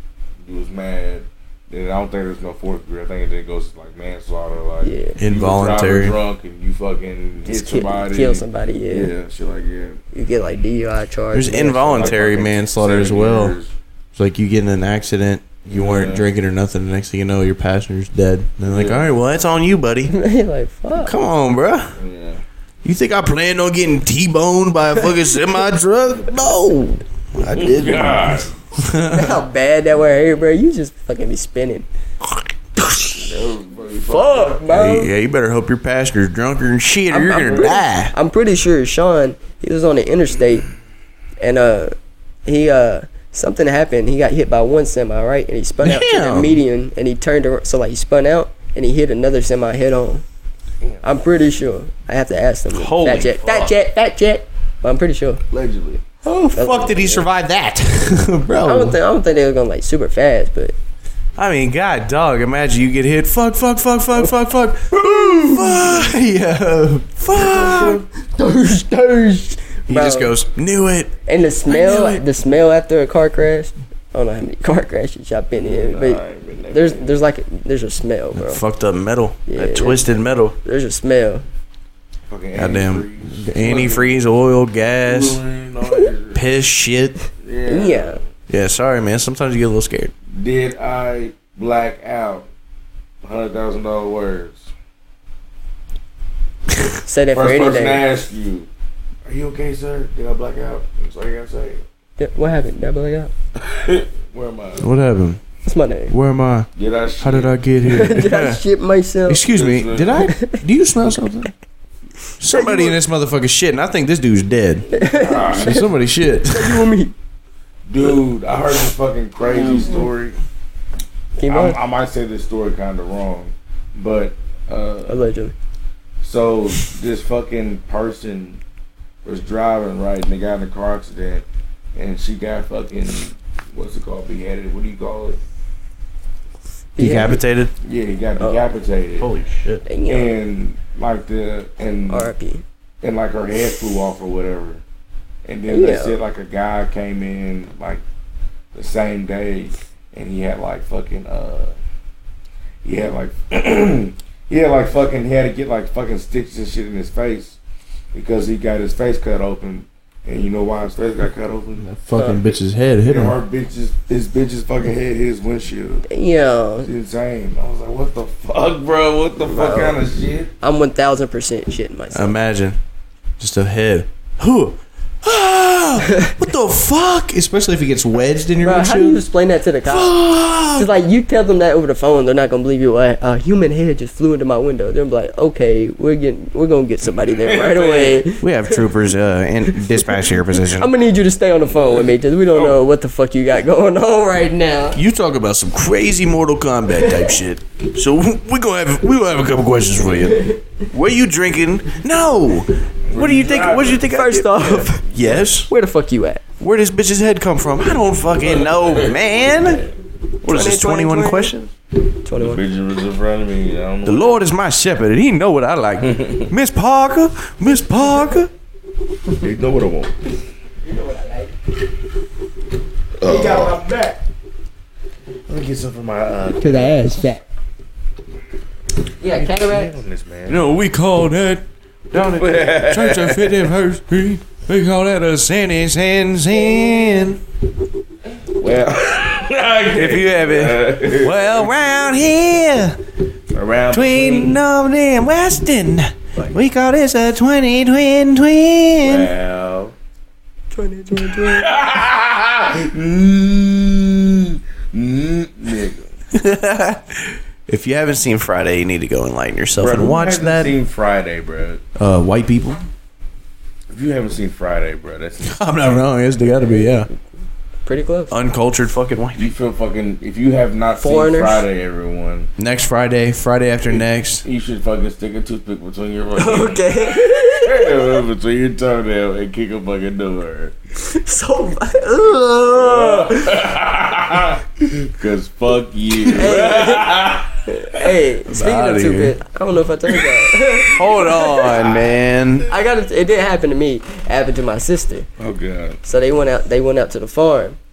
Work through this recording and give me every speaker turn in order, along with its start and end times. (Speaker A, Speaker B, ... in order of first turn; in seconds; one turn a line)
Speaker A: 0.4-10.0
Speaker B: 4.8-5.2
Speaker C: 5.2-6.2
Speaker B: 7.5-9.1
Speaker B: 10.1-12.2
Speaker C: 11.3-13.6
Speaker A: 11.6-13.7
Speaker C: 14.2-20.1
Speaker A: 15.7-16.2
Speaker A: 18.7-19.1
Speaker B: 20.1-21.1
Speaker C: 20.9-21.9
Speaker A: 22.0-22.4
Speaker C: 22.8-29.4
Speaker A: 27.5-28.5
Speaker B: 29.1-31.9
Speaker A: 33.1-34.6
Speaker B: 34.1-35.1
Speaker C: 34.7-38.1
Speaker B: 37.1-40.6
Speaker B: 41.4-41.9
Speaker B: 42.5-50.2
Speaker C: 45.8-46.6
Speaker B: 51.0-55.4
Speaker C: 52.7-53.7
Speaker A: 55.5-56.0
Speaker C: 56.2-59.0
Speaker B: 56.5-57.2
Speaker B: 58.6-60.7
Speaker C: 61.4-68.0
Speaker B: 65.1-65.9
Speaker B: 67.3-70.3
Speaker C: 69.9-71.1
Speaker B: 71.2-78.6
Speaker C: 71.7-72.2
Speaker A: 75.6-77.2
Speaker C: 78.3-80.5
Speaker B: 79.5-81.4
Speaker A: 82.3-84.2
Speaker C: 82.5-85.4
Speaker A: 85.0-86.4
Speaker C: 86.3-87.2
Speaker A: 87.4-88.2
Speaker B: 87.7-88.2
Speaker C: 88.5-90.1
Speaker A: 90.3-92.5
Speaker A: 93.2-94.7
Speaker B: 97.0-98.0
Speaker A: 97.3-98.7
Speaker A: 99.2-101.8
Speaker B: 102.2-103.3
Speaker A: 103.6-104.9
Speaker C: 104.8-105.4
Speaker B: 105.7-106.1
Speaker C: 106.1-106.7
Speaker A: 106.8-107.6
Speaker C: 107.2-108.6
Speaker B: 107.9-109.5
Speaker C: 109.3-111.5
Speaker A: 109.5-110.3
Speaker B: 110.3-110.6
Speaker C: 112.4-114.9
Speaker B: 112.5-113.0
Speaker B: 114.9-115.9
Speaker A: 115.1-115.8
Speaker C: 115.5-116.9
Speaker B: 116.5-117.1
Speaker A: 117.9-120.4
Speaker B: 121.4-121.8
Speaker A: 121.5-125.2
Speaker B: 125.1-125.5
Speaker A: 126.2-128.6
Speaker A: 129.2-135.4
Speaker B: 136.9-137.4
Speaker C: 137.0-137.7
Speaker A: 137.8-139.3
Speaker C: 139.2-139.8
Speaker B: 139.8-140.3
Speaker A: 140.1-142.3
Speaker B: 142.1-142.6
Speaker A: 143.0-144.8
Speaker A: 145.4-148.0
Speaker B: 145.7-146.2
Speaker A: 148.7-151.7
Speaker A: 152.8-157.6
Speaker A: 158.1-161.8
Speaker C: 161.8-163.4
Speaker B: 162.2-162.4
Speaker A: 163.0-166.1
Speaker B: 166.1-166.9
Speaker A: 166.8-170.5
Speaker B: 169.4-170.0
Speaker B: 170.6-172.4
Speaker C: 172.1-172.8
Speaker C: 173.4-179.2
Speaker B: 178.6-188.8
Speaker C: 179.8-180.9
Speaker A: 187.3-188.2
Speaker C: 188.4-190.9
Speaker B: 189.8-195.0
Speaker A: 192.5-192.8
Speaker C: 194.9-205.7
Speaker B: 197.0-197.3
Speaker B: 200.3-200.6
Speaker A: 203.1-204.1
Speaker B: 204.1-205.0
Speaker B: 205.7-206.4
Speaker C: 206.6-209.8
Speaker A: 208.5-209.3
Speaker C: 210.4-211.7
Speaker B: 210.4-211.5
Speaker B: 212.2-212.6
Speaker A: 212.3-214.4
Speaker C: 214.0-218.5
Speaker A: 216.1-216.5
Speaker A: 219.3-220.1
Speaker B: 220.8-221.5
Speaker A: 223.2-223.8
Speaker B: 223.2-224.2
Speaker A: 225.5-227.0
Speaker B: 226.6-227.4
Speaker B: 229.2-229.9
Speaker A: 229.3-230.7
Speaker C: 230.5-237.4
Speaker A: 232.2-233.7
Speaker A: 238.5-241.7
Speaker C: 239.9-243.0
Speaker A: 243.5-244.6
Speaker C: 243.9-249.3
Speaker A: 249.0-249.9
Speaker B: 250.7-251.7
Speaker A: 251.3-256.1
Speaker C: 256.3-260.7
Speaker A: 259.8-261.8
Speaker C: 261.9-262.8
Speaker A: 263.9-265.8
Speaker C: 265.4-267.1
Speaker B: 267.9-268.3
Speaker C: 268.3-269.5
Speaker A: 269.4-272.5
Speaker B: 271.0-271.6
Speaker C: 272.6-274.4
Speaker A: 273.9-280.7
Speaker B: 276.4-278.0
Speaker B: 281.0-283.6
Speaker A: 282.7-288.0
Speaker B: 286.3-291.8
Speaker C: 288.5-289.3
Speaker A: 290.1-290.8
Speaker C: 290.9-292.7
Speaker A: 291.5-292.1
Speaker B: 292.7-295.3
Speaker A: 295.4-296.0
Speaker B: 296.0-297.8